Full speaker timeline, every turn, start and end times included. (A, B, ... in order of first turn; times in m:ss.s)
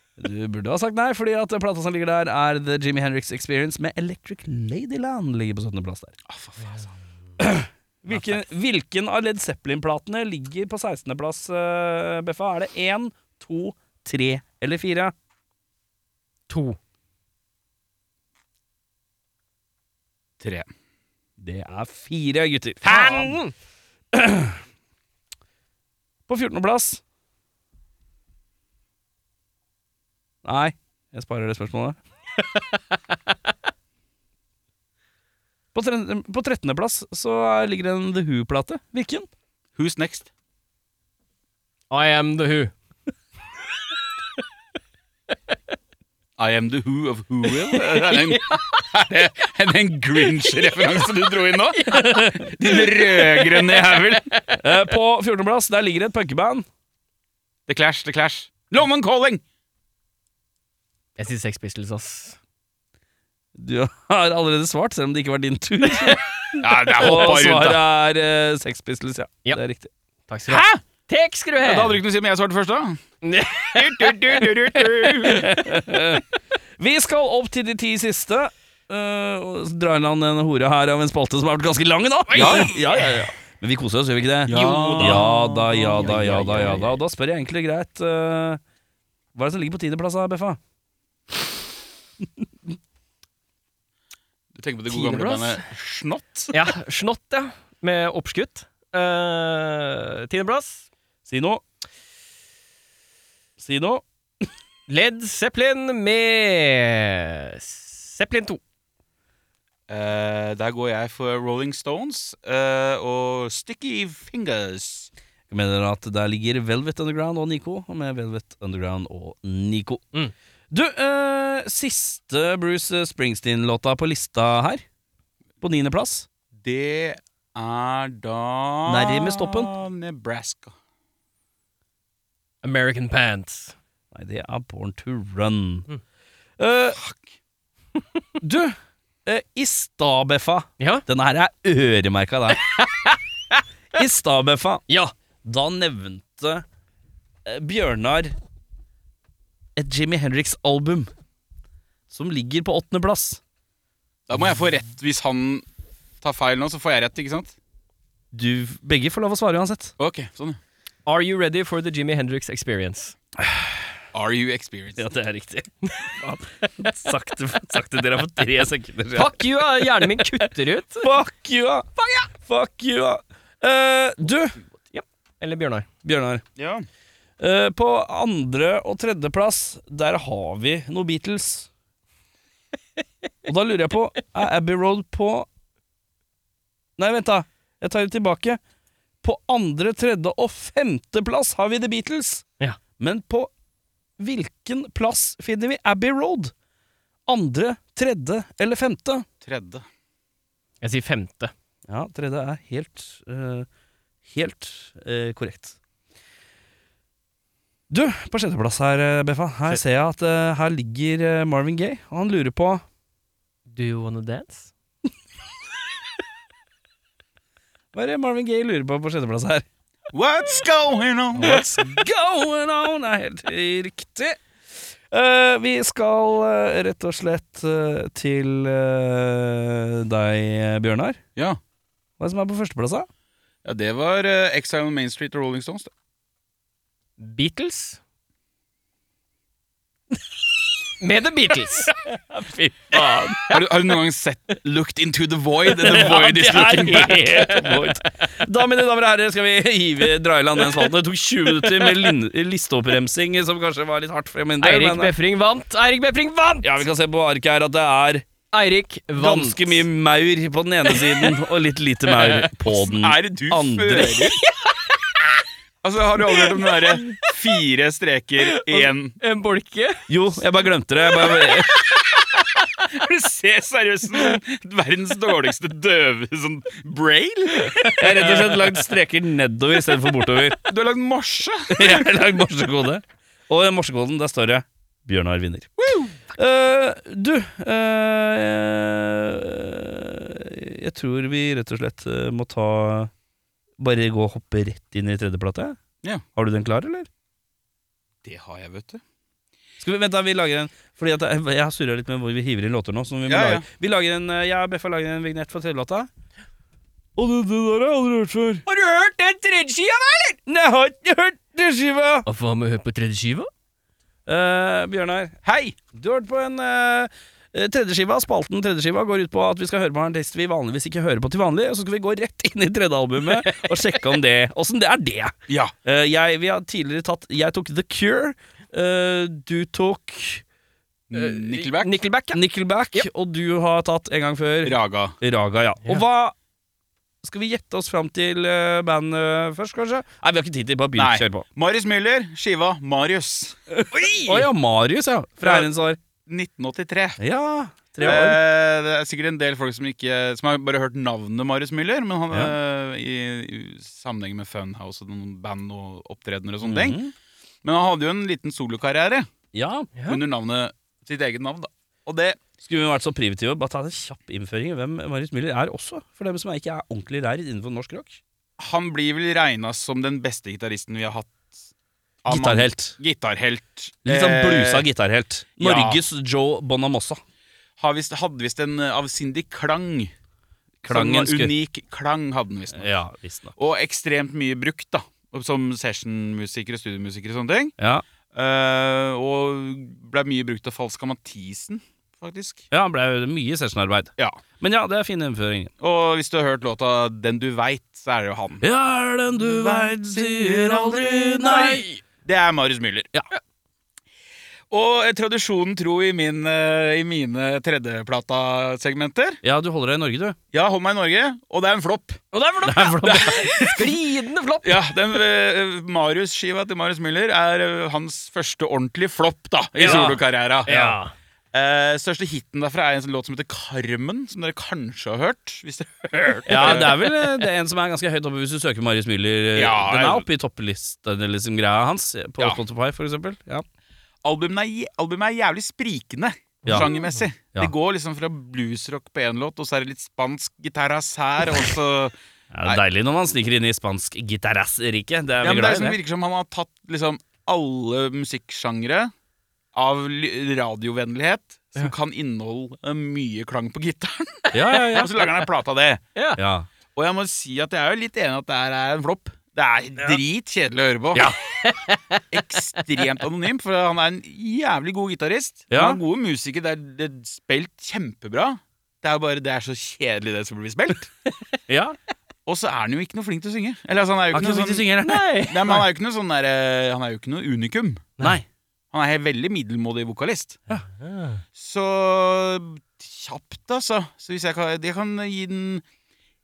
0:00.2-0:06.2 A
0:06.3-0:06.9 B
0:07.4-0:15.1 A
0:08.1-0:08.4 C
0:16.5-0:16.8 C
0:20.4-0:20.7 B
0:21.4-0:23.3 A
0:22.8-0:23.5 C
0:24.1-0:24.6 A
0:26.3-0:27.0 A
0:30.4-0:32.0 A
0:32.4-0:33.2 C
0:35.7-0:39.3 A
0:39.7-0:40.3 B
0:41.9-0:42.7 C
0:46.4-0:54.3 B
0:47.6-0:48.8 C
0:50.3-0:51.0 C
0:51.7-0:54.6 C
0:51.9-0:52.4 A
0:54.6-0:56.6 A
0:57.7-0:59.4 B
1:01.2-1:02.4 C
1:03.6-1:09.9 A
1:06.6-1:07.8 B
1:10.3-1:12.0 C
1:10.5-1:10.8 B
1:11.6-1:13.0 B
1:13.2-1:15.1 C
1:13.7-1:15.5 B
1:15.2-1:16.2 A
1:16.8-1:28.6 A
1:22.3-1:23.2 C
1:22.3-1:22.7 B
1:24.4-1:26.8 B
1:24.5-1:27.0 C
1:29.3-1:30.6 A
1:34.5-1:36.5 B
1:34.9-1:35.6 C
1:36.5-1:40.9 C
1:41.2-1:41.6 A
1:43.6-1:44.0 A
1:44.9-1:48.6 C
1:49.9-1:55.1 B
1:55.5-2:00.1 A
2:00.7-2:04.8 A
2:05.6-2:06.3 A
2:06.6-2:10.7 B
2:08.8-2:09.7 A
2:12.6-2:13.8 C
2:14.1-2:15.9 A
2:16.6-2:17.0 A
2:16.9-2:17.3 B
2:18.4-2:22.6 A
2:20.8-2:21.0 C
2:22.5-2:23.6 C
2:23.9-2:24.8 A
2:24.9-2:25.1 C
2:25.4-2:26.6 A
2:27.4-2:28.3 A
2:29.8-2:31.1 A
2:32.1-2:33.4 A
2:34.3-2:35.6 B
2:36.2-2:37.5 B
2:38.3-2:39.9 A
2:40.0-2:40.6 B
2:41.0-2:43.1 C
2:43.4-2:43.8 A
2:44.1-2:45.0 B
2:45.0-2:50.4 A
2:49.1-2:51.1 C
2:51.0-2:51.9 A
2:52.0-2:52.3 C
2:52.4-2:54.6 A
2:54.9-2:55.9 C
2:56.0-2:56.4 A
2:56.6-2:56.8 B
2:57.4-3:01.7 A
3:03.4-3:05.5 A
3:07.0-3:08.6 A
3:09.2-3:12.4 A
3:13.0-3:13.5 A
3:14.2-3:16.5 A
3:17.3-3:19.2 A
3:19.4-3:19.8 B
3:20.8-3:21.5 C
3:21.9-3:23.7 A
3:24.3-3:25.8 A
3:27.9-3:32.8 A
3:33.7-3:34.7 C
3:37.9-3:39.6 A
3:40.1-3:41.6 B
3:41.4-3:44.4 A
3:45.1-3:51.2 A
3:52.2-3:53.1 A
3:53.6-3:55.9 B
3:57.2-3:58.0 C
4:01.0-4:01.9 C
4:02.0-4:03.6 A
4:03.5-4:07.5 B
4:05.8-4:15.1 A
4:14.6-4:16.8 C
4:16.6-4:18.2 A
4:18.5-4:19.8 C
4:19.2-4:24.3 A
4:20.9-4:21.3 C
4:22.1-4:22.5 C
4:22.7-4:24.4 B
4:24.2-4:25.2 C
4:25.8-4:29.2 B
4:26.2-4:27.3 C
4:28.4-4:30.1 C
4:30.1-4:31.7 A
4:31.2-4:31.6 C
4:32.8-4:38.6 B
4:37.8-4:38.5 C
4:38.0-4:40.6 A
4:40.6-4:42.1 B
4:41.7-4:45.7 A
4:45.8-4:46.1 B
4:46.3-4:53.1 A
4:53.8-4:55.8 A
4:56.4-4:57.1 A
4:58.2-4:59.0 B
4:59.8-5:06.1 A
5:03.2-5:03.6 B
5:07.2-5:08.6 A
5:08.6-5:10.4 C
5:10.5-5:12.2 A
5:12.2-5:13.5 C
5:14.2-5:15.3 A
5:15.4-5:15.8 B
5:15.9-5:25.3 A
5:23.2-5:23.7 C
5:25.5-5:25.7 B
5:25.8-5:30.4 A
5:31.1-5:31.9 B
5:31.1-5:32.4 C
5:32.3-5:36.3 A
5:34.6-5:35.1 B
5:37.2-5:41.4 A
5:41.0-5:44.0 B
5:43.8-5:46.0 A
5:43.9-5:44.4 C
5:45.4-5:45.7 B
5:46.3-5:47.2 B
5:47.2-5:48.4 A
5:48.0-5:57.0 B
5:56.6-5:57.1 A
5:57.6-5:59.3 B
5:59.5-5:59.9 A
6:00.0-6:02.4 B
6:02.6-6:08.2 A
6:08.6-6:11.4 B
6:12.2-6:14.9 B
6:12.3-6:13.0 A
6:14.0-6:17.2 A
6:15.6-6:16.0 B
6:17.8-6:20.1 B
6:20.8-6:21.5 A
6:20.9-6:22.9 B
6:22.7-6:23.5 A
6:23.6-6:27.7 B
6:27.8-6:28.0 A
6:28.3-6:32.6 B
6:32.7-6:35.7 A
6:35.8-6:38.6 B
6:38.6-6:41.8 A
6:39.3-6:43.1 B
6:41.6-6:42.0 C
6:44.7-6:49.4 B
6:49.4-6:50.4 A
6:50.5-6:52.2 B
6:52.3-6:54.9 C
6:52.6-6:53.9 A
6:53.1-6:53.8 B
6:54.6-7:00.7 B
6:59.8-7:01.0 A
6:59.8-7:00.1 C
7:00.7-7:01.1 C
7:01.5-7:07.0 B
7:06.5-7:13.6 A
7:06.5-7:07.2 C
7:09.5-7:10.3 B
7:14.2-7:22.8 B
7:16.6-7:17.2 C
7:22.5-7:26.0 A
7:25.4-7:29.1 B
7:29.7-7:36.0 B
7:34.5-7:35.1 A
7:36.1-7:36.4 C
7:36.4-7:36.7 A
7:36.9-7:41.3 B
7:41.2-7:42.2 C
7:42.3-7:51.1 B
7:45.7-7:46.0 A
7:51.7-7:52.0 A
7:52.4-7:54.9 B
7:54.3-7:55.4 A
7:55.0-7:55.8 C
7:55.5-7:58.1 B
7:58.2-7:58.4 A
7:58.9-8:00.6 B
8:00.9-8:01.4 C
8:01.6-8:05.8 B